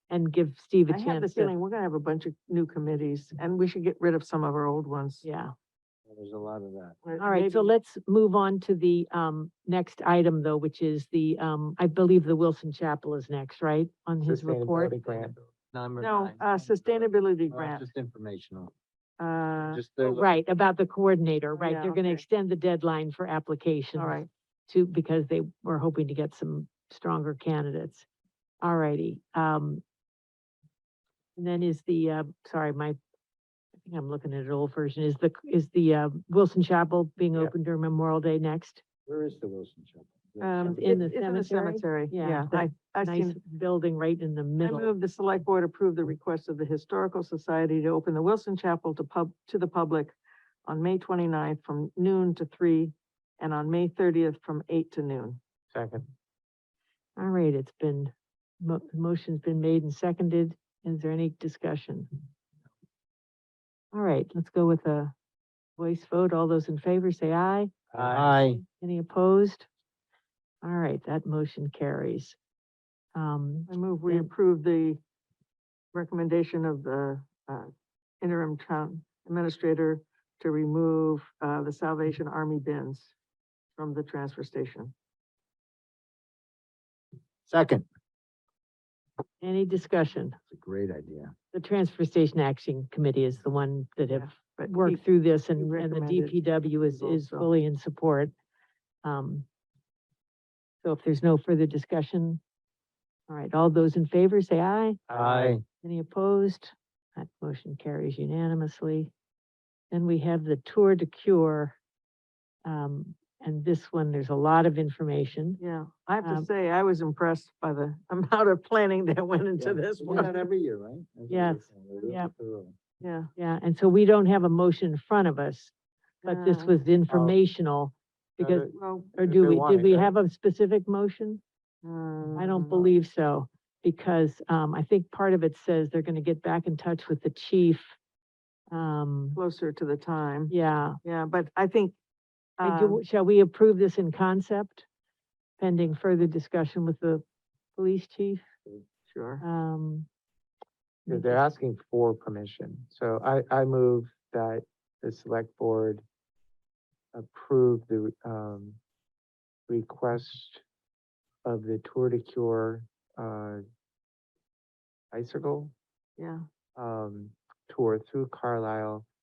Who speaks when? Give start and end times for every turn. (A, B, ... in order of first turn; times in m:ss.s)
0:00.1-0:01.5 A
0:00.9-0:05.2 B
0:05.2-0:05.5 A
0:06.1-0:07.0 C
0:07.0-0:07.7 B
0:07.2-0:15.3 A
0:14.2-0:15.5 D
0:15.7-0:18.7 C
0:16.0-0:17.9 B
0:19.2-0:19.8 B
0:19.7-0:20.4 C
0:20.0-0:28.1 A
0:21.5-0:22.2 B
0:24.0-0:24.3 B
0:28.6-0:29.8 A
0:31.4-0:33.0 A
0:33.8-0:38.8 A
0:39.1-0:40.8 C
0:40.4-0:43.4 B
0:40.6-0:44.9 A
0:44.6-0:50.1 B
0:50.6-0:55.4 B
0:55.7-0:56.0 D
0:57.2-1:02.1 A
1:03.9-1:05.1 A
1:05.8-1:09.7 A
1:07.9-1:08.3 D
1:07.9-1:08.6 C
1:10.6-1:12.4 A
1:13.1-1:14.3 A
1:13.7-1:15.0 B
1:15.9-1:23.1 B
1:23.8-1:24.9 B
1:27.5-1:27.8 C
1:29.4-1:30.4 A
1:30.5-1:31.3 C
1:31.5-1:38.3 A
1:34.1-1:35.0 B
1:35.6-1:37.5 B
1:39.0-1:39.4 A
1:40.8-1:42.4 A
1:43.3-1:45.0 A
1:45.1-1:45.6 D
1:45.1-1:45.6 C
1:45.8-1:49.1 A
1:49.9-1:51.8 A
1:52.6-1:55.6 A
1:55.6-2:00.4 B
1:56.2-1:56.5 A
1:59.6-2:02.7 C
2:00.0-2:00.3 A
2:01.3-2:02.3 A
2:03.0-2:03.3 B
2:03.4-2:05.7 A
2:06.2-2:06.8 B
2:06.2-2:11.4 A
2:07.1-2:07.4 D
2:08.4-2:10.1 D
2:08.7-2:09.2 B
2:11.8-2:12.9 B
2:12.4-2:17.9 A
2:18.7-2:19.4 A
2:19.3-2:20.5 B
2:20.5-2:21.0 A
2:21.0-2:22.0 B
2:22.6-2:23.0 B
2:22.6-2:24.8 A
2:25.6-2:27.2 A
2:27.8-2:28.4 A
2:29.1-2:29.4 B
2:29.4-2:30.1 A
2:31.0-2:31.4 A
2:31.1-2:36.0 D
2:37.1-2:38.8 D
2:39.7-2:40.6 D
2:41.4-2:43.6 D
2:45.1-2:45.7 D
2:46.2-2:46.4 B
2:46.8-2:49.0 D